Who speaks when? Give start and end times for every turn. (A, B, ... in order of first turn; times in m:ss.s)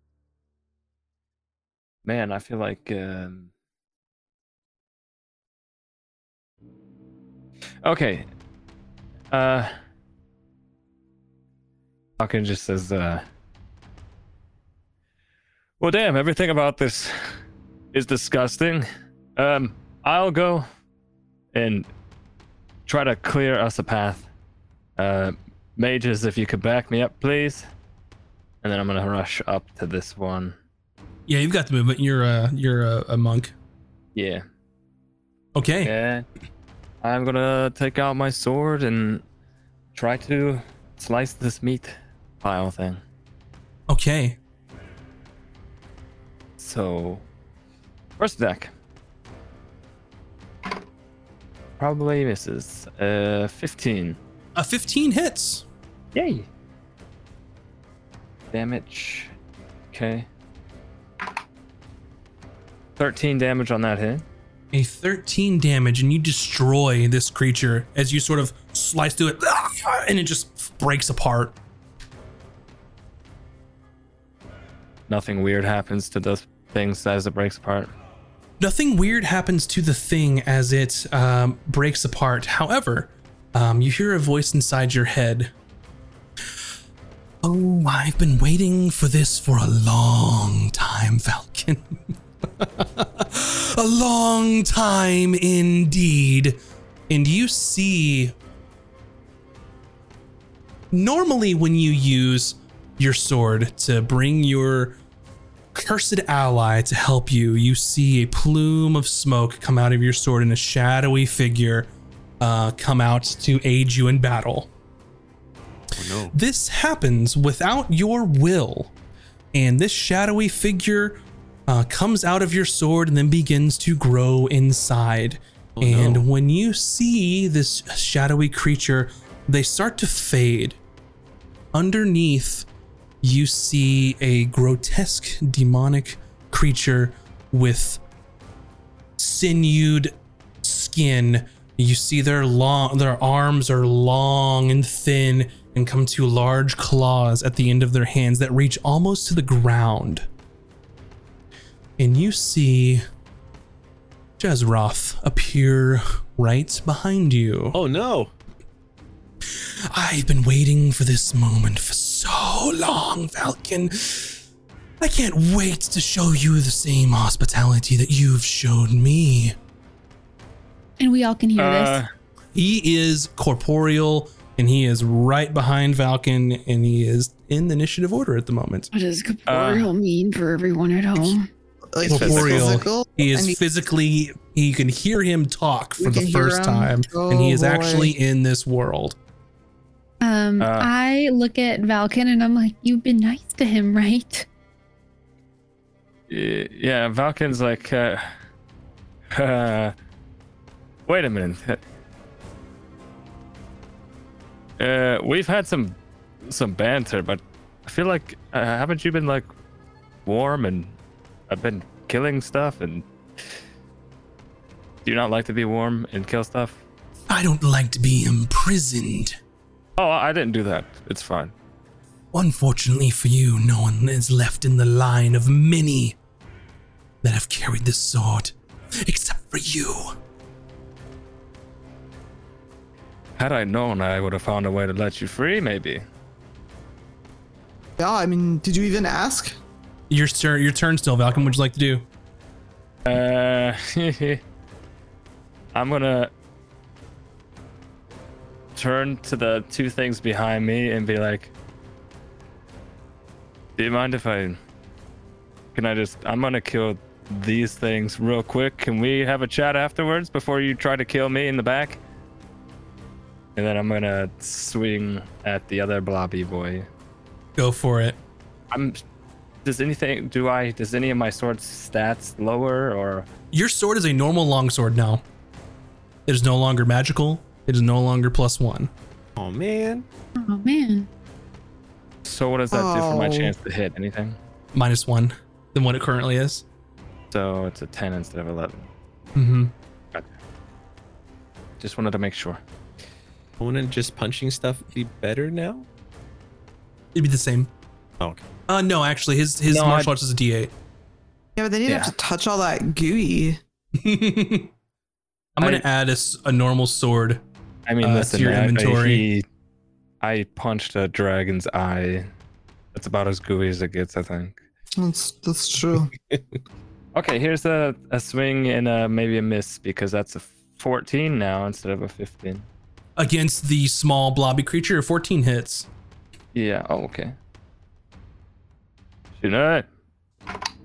0:02.0-0:03.5 A
0:07.8-0:08.3 A
0:09.3-0:09.7 A
0:12.2-0:13.2 A
0:15.8-0:17.4 A
0:17.9-0:20.6 A
0:21.5-0:21.9 A
0:22.9-0:24.3 A
0:25.0-0:27.6 A
0:28.6-0:30.6 A
0:31.3-0:33.5 B
0:34.1-0:34.4 A
0:35.5-0:35.9 B
0:35.8-0:36.2 A
0:37.0-0:39.2 A
0:39.9-0:43.0 A
0:43.9-0:44.4 B
0:46.6-0:47.2 A
0:48.2-0:48.7 A
0:51.8-0:54.2 A
0:54.6-0:55.6 B
0:56.1-0:56.4 A
0:58.5-0:59.3 A
0:59.9-1:00.3 A
1:03.0-1:04.2 A
1:04.7-1:11.6 B
1:15.1-1:17.9 A
1:18.6-1:25.5 B
1:27.4-1:36.6 B
1:37.1-1:38.3 B
1:40.9-1:45.0 B
1:45.7-1:54.7 B
1:56.0-1:56.3 C
1:56.3-1:58.9 B
1:59.5-2:10.8 B
2:05.8-2:06.3 C
2:11.7-2:12.7 B
2:13.2-2:18.0 B
2:19.2-2:30.3 B
2:32.0-2:33.0 B
2:34.4-2:37.8 B
2:37.7-2:38.3 C
2:39.5-2:44.4 B
2:45.0-2:49.5 B
2:51.0-2:52.0 D
2:51.6-2:52.1 A
2:52.5-2:58.9 B
2:58.9-3:01.5 D
2:59.5-2:59.9 A
3:01.9-3:03.6 E
3:02.0-3:09.2 B
3:02.1-3:02.7 A
3:06.0-3:08.1 E
3:10.2-3:14.5 D
3:10.6-3:10.9 A
3:16.3-3:18.3 A
3:19.3-3:19.9 A
3:21.1-3:21.8 A
3:24.8-3:29.5 A
3:30.2-3:30.9 A
3:31.5-3:33.6 A
3:35.0-3:36.8 A
3:37.3-3:39.4 B
3:40.0-3:41.5 A
3:42.3-3:46.2 B
3:47.2-3:50.2 B
3:53.4-3:56.0 A
3:58.0-3:59.6 E
4:00.1-4:02.0 B
4:03.0-4:04.4 A
4:05.7-4:06.3 A
4:08.8-4:11.5 A
4:13.8-4:14.6 A
4:15.7-4:22.0 A
4:23.6-4:26.9 A
4:27.6-4:28.2 B
4:28.7-4:29.0 A
4:29.6-4:33.3 A
4:33.5-4:35.2 B
4:36.3-4:38.9 B
4:39.4-4:40.0 C
4:40.4-4:41.1 D
4:42.2-4:44.4 A
4:42.7-4:43.5 E
4:44.7-4:46.6 B
4:47.3-4:48.9 A
4:49.4-4:49.7 B
4:51.8-4:52.6 A
4:53.6-4:55.9 C
4:57.1-4:57.7 B
4:58.7-5:00.7 B
4:59.7-5:00.1 A
5:01.6-5:03.6 E
5:01.9-5:02.1 A
5:04.0-5:04.7 B
5:05.6-5:07.4 B
5:07.9-5:09.4 A
5:08.0-5:09.2 B
5:10.2-5:12.3 A
5:12.9-5:14.6 A
5:15.0-5:16.1 E
5:17.1-5:22.7 A
5:23.2-5:25.9 B
5:26.5-5:27.3 A
5:29.4-5:29.8 A